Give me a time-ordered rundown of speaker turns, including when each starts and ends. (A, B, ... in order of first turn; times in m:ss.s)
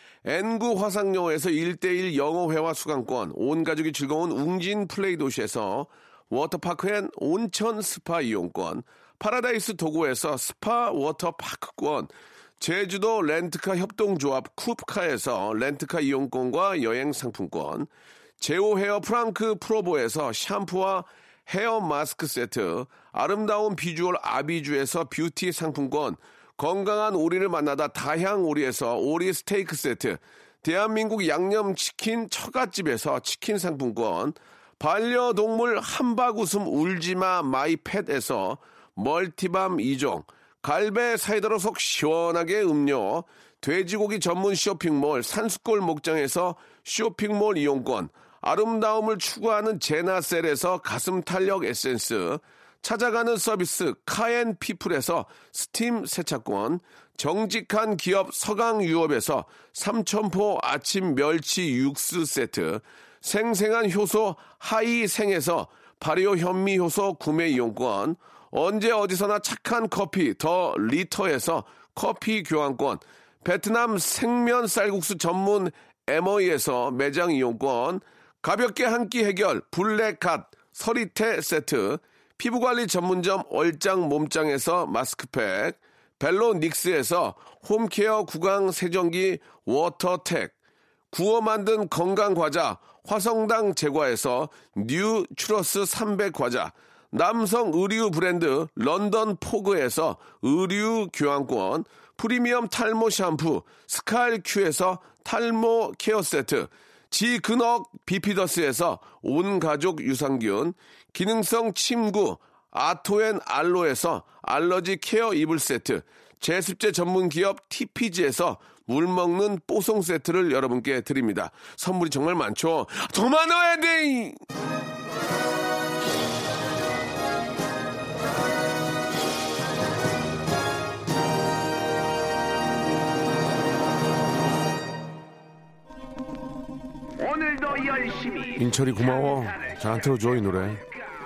0:00.2-1:30.5 A
1:31.1-2:04.4 A
2:17.2-2:20.8 A